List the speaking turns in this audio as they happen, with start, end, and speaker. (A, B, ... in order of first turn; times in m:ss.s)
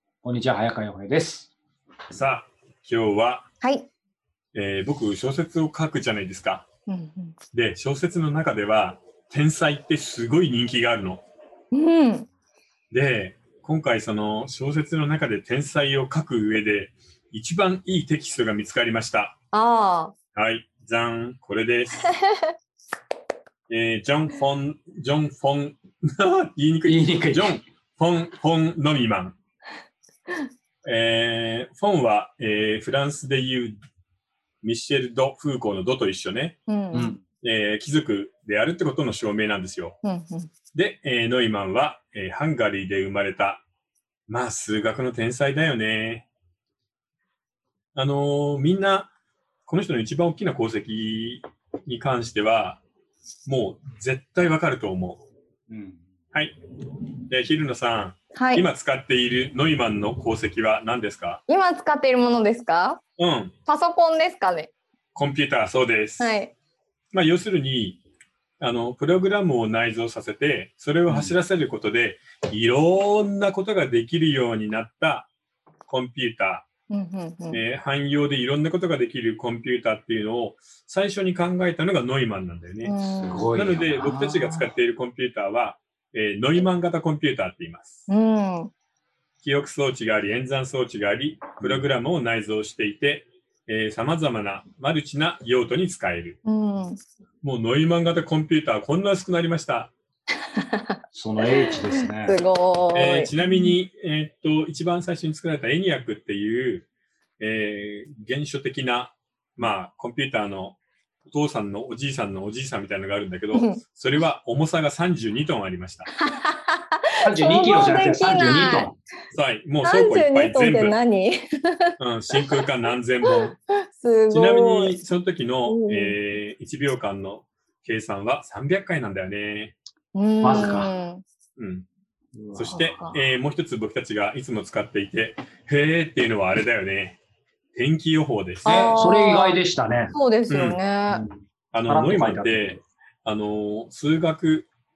0:00.2-0:01.5 A
0:02.1-0:03.5 B
0:03.6-0:03.9 C
0:04.5-0:06.6 B
0:06.9-0:07.4 C
0:07.5-0:11.2 B
0:11.7-0:12.3 C
0:12.9-0:19.4 B
0:19.5-0:20.1 C
0:20.3-0:22.1 B
0:23.7-0:29.4 B
0:26.8-0:27.6 A
0:30.8-0:33.8 B
0:34.6-0:36.6 B
0:36.7-0:37.2 C
0:36.9-0:37.2 A
0:37.4-0:40.0 B
0:40.0-0:40.5 C
0:40.7-0:43.6 B
0:44.3-0:46.2 B
0:47.9-0:49.1 B
0:49.7-0:52.8 B
0:53.4-0:55.2 B
0:55.7-0:56.0 A
0:57.3-1:01.4 B
0:58.3-0:58.6 C
1:01.5-1:03.0 C
1:03.2-1:03.5 B
1:03.7-1:04.7 C
1:05.1-1:06.3 B
1:06.2-1:06.5 C
1:07.1-1:08.0 B
1:08.6-1:15.3 B
1:11.1-1:11.3 A
1:15.8-1:16.6 B
1:16.9-1:17.6 C
1:17.5-1:23.0 B
1:22.8-1:23.5 C
1:23.2-1:24.7 A
1:23.5-1:28.1 B
1:28.1-1:28.7 C
1:29.4-1:36.4 B
1:31.6-1:31.8 A
1:36.4-1:37.0 C
1:37.4-1:39.9 B
1:40.6-1:41.0 C
1:41.1-1:42.4 A
1:41.6-1:43.8 C
1:42.9-1:46.9 B
1:47.4-1:50.8 B
1:51.3-1:56.1 B
1:53.5-1:53.8 C
1:56.2-1:58.9 C
1:57.2-1:58.9 A
1:59.3-2:01.0 B
1:59.8-2:02.6 C
2:02.0-2:03.6 B
2:03.3-2:05.0 C
2:04.3-2:09.8 B
2:05.6-2:06.2 C
2:10.1-2:11.2 C
2:10.4-2:10.9 A
2:11.6-2:11.9 B
2:12.3-2:13.0 A
2:12.5-2:17.2 B
2:12.7-2:13.2 C
2:17.7-2:18.9 B
2:18.6-2:19.6 C
2:18.7-2:20.1 A
2:20.1-2:21.2 C
2:20.5-2:20.8 B
2:21.1-2:22.8 A
2:21.7-2:24.7 B